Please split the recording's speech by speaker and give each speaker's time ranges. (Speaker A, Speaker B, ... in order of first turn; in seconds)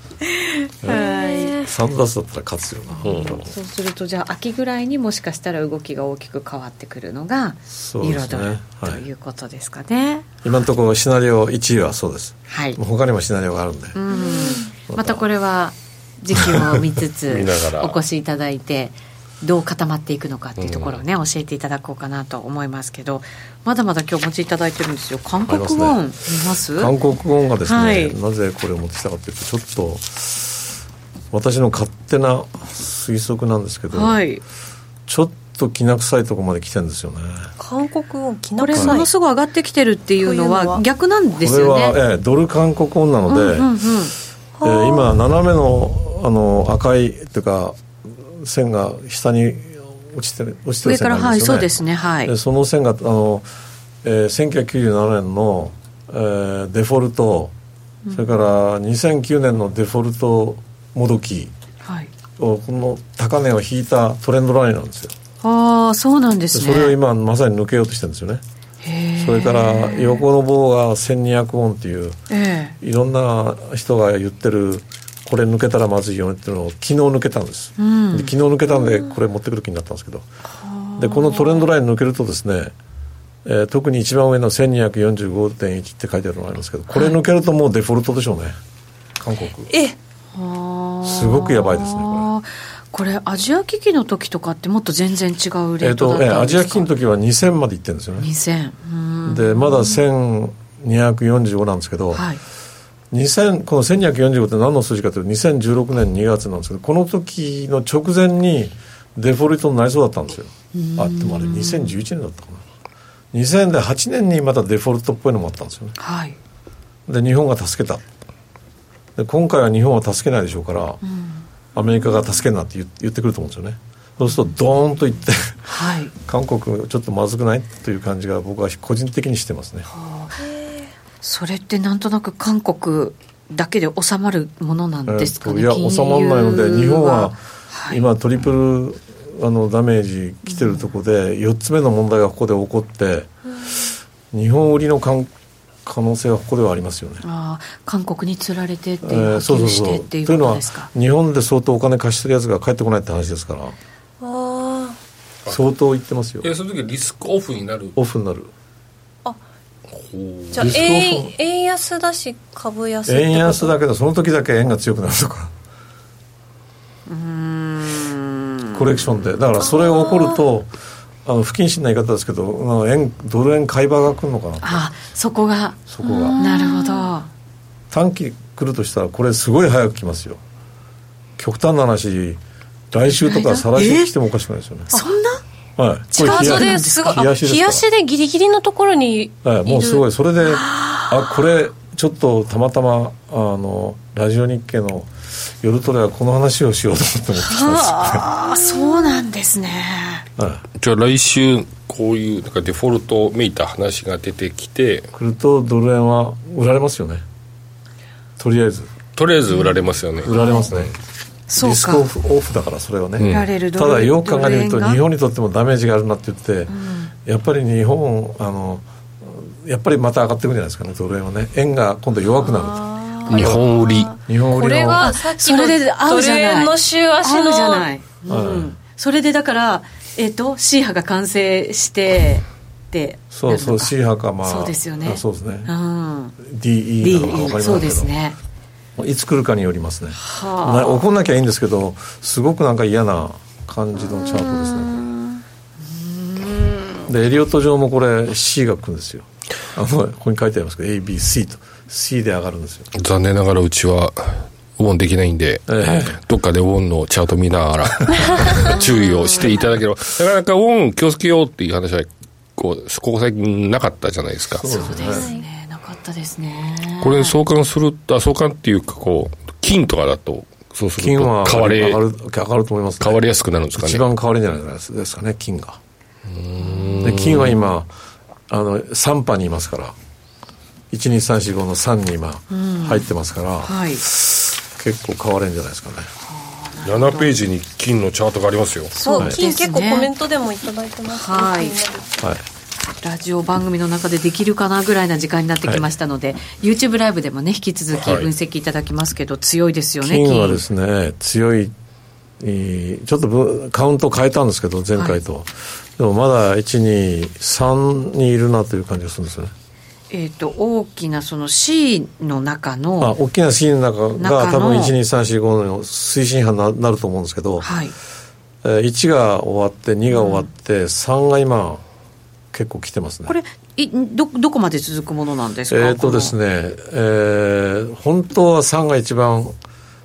Speaker A: 0.3-1.6, 3.0-10.3, 12.5-12.8, 13.9-26.9, 27.6-28.1, 33.9-34.4, 38.6-42.0, 43.3-44.1, 50.8-52.3, 58.0-58.3, 61.8-62.1, 65.4-67.0, 68.8-70.2, 72.3-72.7, 77.8-78.3, 80.5-81.7, 90.3-96.9, 98.2-100.0, 102.1-102.4, 110.7-111.9, 116.0-116.4, 121.0-121.5, 125.7-126.1, 129.9-130.4, 131.2-138.0, 140.5-140.8, 147.2-150.9, 167.1-168.8, 174.6-177.3, 183.1-184.1, 184.9-185.4, 186.1-187.3, 190.4-191.3, 197.4-200.2, 209.5-210.7, 211.5-212.1, 213.2-215.0, 216.7-217.1, 222.3-224.2, 224.9-236.4, 237.0-238.4, 240.1-241.0, 244.2-247.1, 258.5-259.7, 264.6-267.4, 276.6-277.1, 282.5-283.1, 283.6-284.0, 286.2-287.3, 288.9-290.1, 291.1-291.8, 293.0-300.6, 304.9-305.2, 310.1-313.1, 314.2-314.9, 317.6-317.9, 320.1-320.5, 323.3-326.3
Speaker B: 0.8-1.7, 14.1-14.7, 37.6-39.1, 40.2-40.8, 44.6-45.2, 89.7-90.0, 130.4-130.9, 154.2-155.0, 160.5-163.7, 169.6-170.4, 176.0-177.1, 186.1-190.0, 224.5-227.9, 265.0-265.4, 289.0-292.1
Speaker C: 1.6-3.5, 7.7-9.0, 10.4-14.0, 14.9-15.2, 16.3-16.8, 25.5-26.0, 26.7-30.6, 31.3-34.2, 35.1-37.5, 38.7-39.0, 41.4-43.7, 44.6-53.5, 54.0-57.5, 58.1-61.5, 62.4-65.1, 66.5-68.4, 69.2-72.2, 72.8-80.2, 81.0-82.7, 83.4-88.5, 89.2-89.7, 91.0-92.3, 95.8-98.3, 99.2-102.2, 103.1-112.6, 113.3-115.9, 117.1-118.0, 119.2-121.0, 121.7-129.9, 135.1-143.3, 144.3-145.3, 145.8-147.2, 149.0-153.8, 155.5-156.5, 157.9-158.5, 160.6-161.3, 163.1-165.5, 168.7-170.7, 171.2-174.8, 175.9-176.4, 177.9-180.4, 181.4-185.0, 185.8-187.8, 189.4-198.3, 200.4-200.6, 205.1-207.2, 208.4-208.9, 210.2-210.9, 211.6-216.7, 217.2-223.6, 224.2-225.1, 228.2-228.8, 233.3-235.7, 236.4-238.1, 239.0-245.0, 247.1-252.9, 255.7-256.2, 264.5-265.3, 271.0-273.2, 273.7-275.8, 277.0-277.9, 278.5-279.9, 280.9-286.1, 292.2-292.4, 300.0-301.7, 302.4-309.5, 313.0-317.7, 318.6-321.8, 322.5-323.4, 325.7-329.6
Speaker D: 3.0-3.5, 17.3-18.0, 20.6-21.0, 156.4-157.9, 159.9-160.8, 200.8-205.1, 209.2-210.9, 213.2-213.5, 223.3-224.1, 252.9-264.6, 267.0-272.0, 273.0-274.0, 276.3-277.5, 286.8-288.9, 297.9-298.3